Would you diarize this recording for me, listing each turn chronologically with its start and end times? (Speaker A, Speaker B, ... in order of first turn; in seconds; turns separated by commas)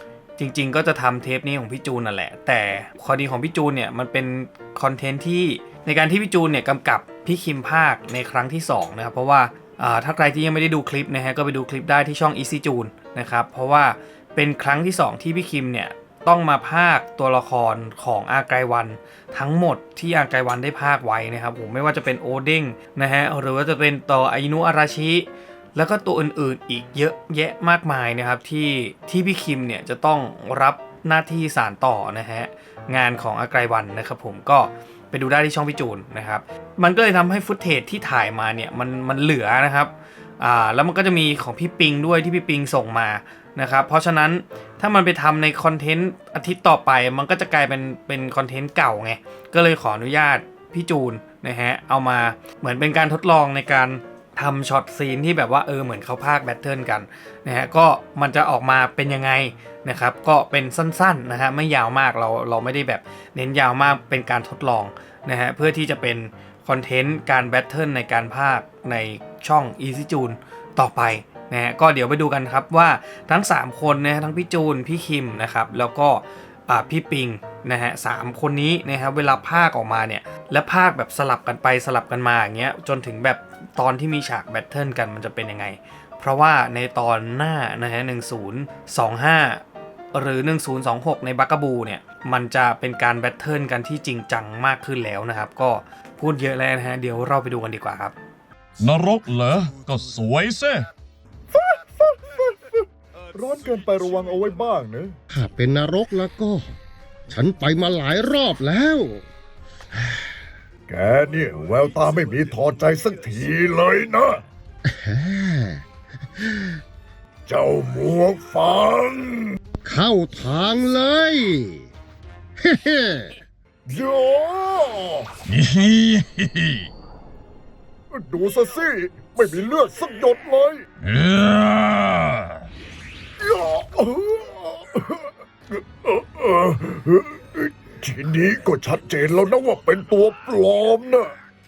Speaker A: 0.4-98.2, Speaker B: 98.8-100.9, Speaker C: 101.5-105.2, Speaker D: 105.3-106.8, Speaker D: 107.3-109.3, Speaker C: 110.9-114.4, Speaker D: 114.9-115.8, Speaker D: 116.4-116.7, Speaker C: 117.5-119.6, Speaker D: 119.8-121.9, Speaker D: 122.6-123.4, Speaker C: 123.9-125.3, Speaker B: 125.5-126.9, Speaker C: 128.1-130.8, Speaker B: 131.0-132.7, Speaker C: 133.4-141.3